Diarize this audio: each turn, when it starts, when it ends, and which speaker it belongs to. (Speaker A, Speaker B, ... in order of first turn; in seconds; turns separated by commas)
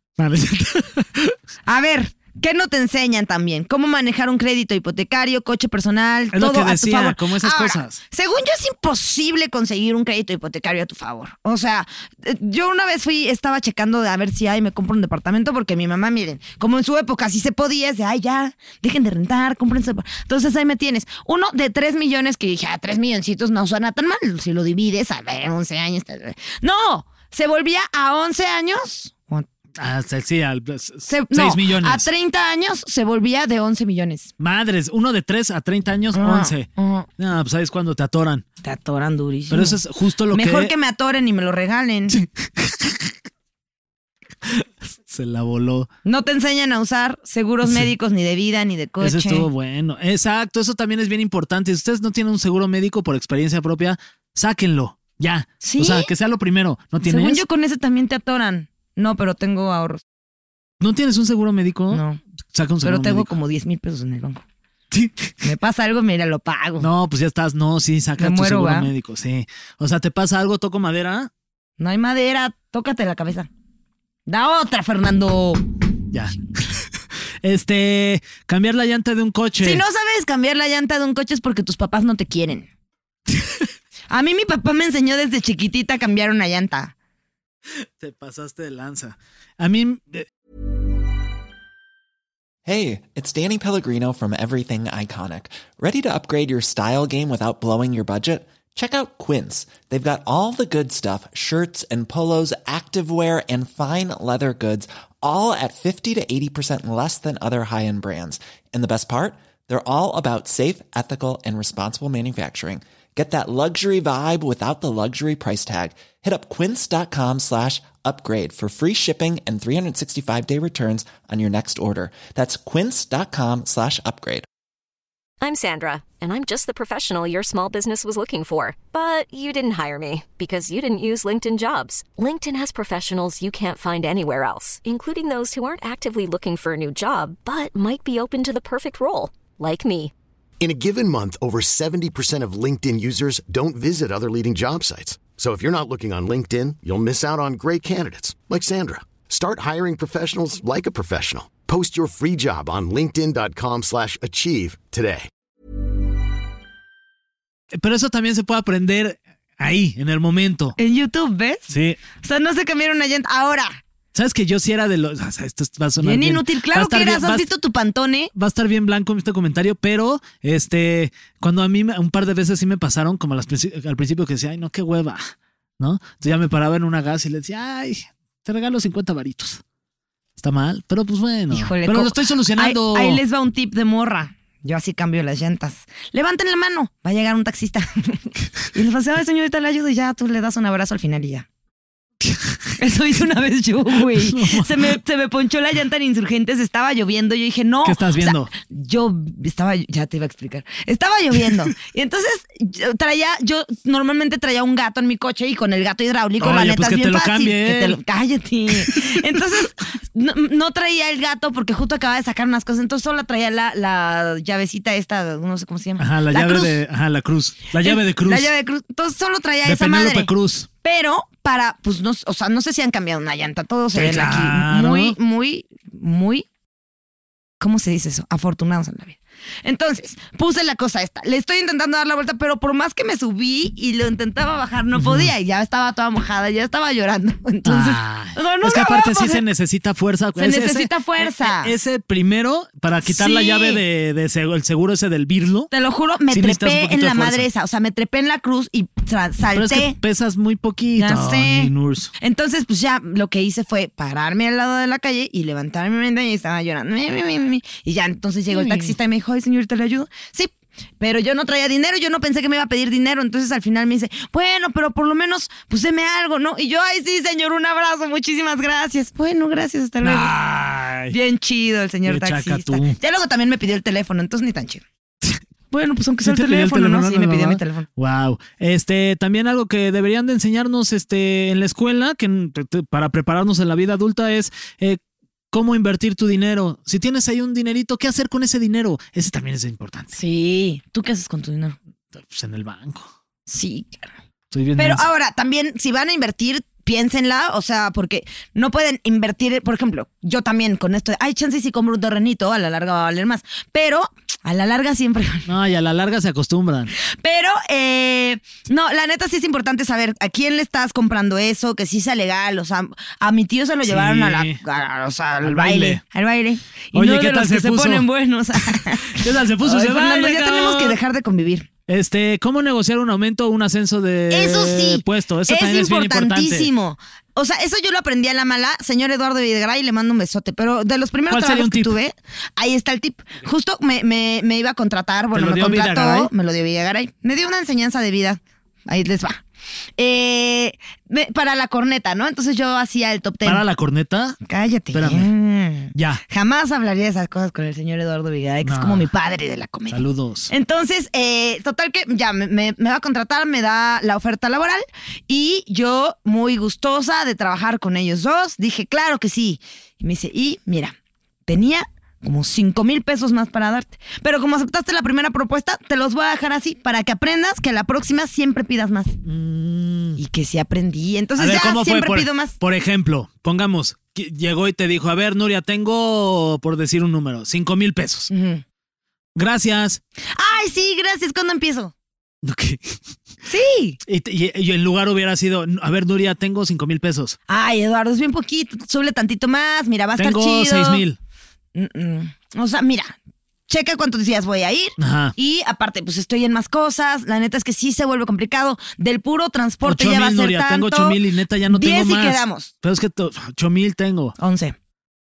Speaker A: 0.2-1.4, Speaker B: 1.6-29.5, Speaker A: 6.3-8.0, Speaker A: 29.8-32.1, Speaker B: 31.1-34.3, Speaker A: 34.4-38.4, Speaker B: 36.1-37.1, Speaker B: 38.6-39.8, Speaker A: 39.5-40.7, Speaker B: 40.3-42.2, Speaker A: 42.1-43.1, Speaker A: 44.4-45.9, Speaker B: 46.0-49.5, Speaker A: 47.6-47.9, Speaker A: 49.0-57.4, Speaker B: 55.6-56.1, Speaker B: 57.0-60.0, Speaker A: 60.8-63.3, Speaker B: 61.9-62.2, Speaker B: 62.8-64.4, Speaker A: 64.9-65.3, Speaker B: 65.4-66.9, Speaker A: 66.8-71.3, Speaker B: 68.2-68.9, Speaker B: 71.8-73.5, Speaker B: 74.3-75.6, Speaker A: 76.1-76.8, Speaker A: 77.4-79.8, Speaker B: 79.6-82.7, Speaker A: 83.3-83.7, Speaker B: 84.1-86.9, Speaker A: 88.0-90.3, Speaker C: 92.7-124.4, Speaker D: 125.4-140.1, Speaker E: 140.6-155.3, Speaker A: 157.7-160.8, Speaker B: 160.8-161.7, Speaker A: 161.7-162.0, Speaker B: 162.2-163.8, Speaker A: 164.1-167.5, Speaker B: 166.0-168.3, Speaker A: 168.3-179.6, Speaker A: 180.4-183.2, Speaker B: 181.5-191.4, Speaker A: 192.2-192.7, Speaker B: 192.8-216.8, Speaker A: 194.0-194.9, Speaker A: 197.8-198.5, Speaker A: 206.4-208.0, Speaker A: 208.7-209.1, Speaker A: 216.0-218.5, Speaker B: 217.8-220.3, Speaker A: 219.6-220.7, Speaker B: 220.8-226.4, Speaker A: 223.9-225.2, Speaker B: 227.6-239.4, Speaker A: 234.9-235.3, Speaker A: 237.6-245.7, Speaker B: 240.4-241.7, Speaker B: 243.0-243.8, Speaker B: 245.7-250.0, Speaker A: 246.3-247.5, Speaker A: 249.5-252.1, Speaker B: 251.0-270.3, Speaker A: 258.5-259.0, Speaker A: 270.0-271.2, Speaker B: 271.1-274.8, Speaker A: 272.1-273.0, Speaker B: 275.7-277.9, Speaker A: 276.2-285.0, Speaker A: 285.5-290.1, Speaker B: 290.1-291.8, Speaker A: 292.1-293.1, Speaker B: 293.5-294.1, Speaker A: 294.5-295.1, Speaker B: 294.8-305.5, Speaker A: 305.4-306.9, Speaker B: 307.0-321.7, Speaker A: 313.9-314.6, Speaker A: 315.4-316.0, Speaker A: 316.9-321.0, Speaker A: 321.9-326.7, Speaker B: 324.3-339.4, Speaker A: 331.3-331.9, Speaker A: 335.3-336.3, Speaker B: 340.0-343.6, Speaker A: 343.4-344.4, Speaker B: 344.4-360.9, Speaker A: 344.9-345.3, Speaker A: 345.9-346.2, Speaker A: 348.6-349.1, Speaker A: 349.9-350.5, Speaker B: 361.5-369.1, Speaker A: 369.2-370.2, Speaker B: 370.2-372.6, Speaker A: 371.4-378.3, Speaker B: 378.3-378.6, Speaker A: 379.3-380.0, Speaker B: 380.3-381.9, Speaker A: 382.4-383.0, Speaker B: 383.4-384.0, Speaker A: 384.1-387.4, Speaker B: 387.5-391.0, Speaker A: 390.2-391.2, Speaker B: 391.7-393.1, Speaker B: 393.7-402.7, Speaker A: 395.0-395.3, Speaker A: 399.8-404.3, Speaker B: 404.4-404.7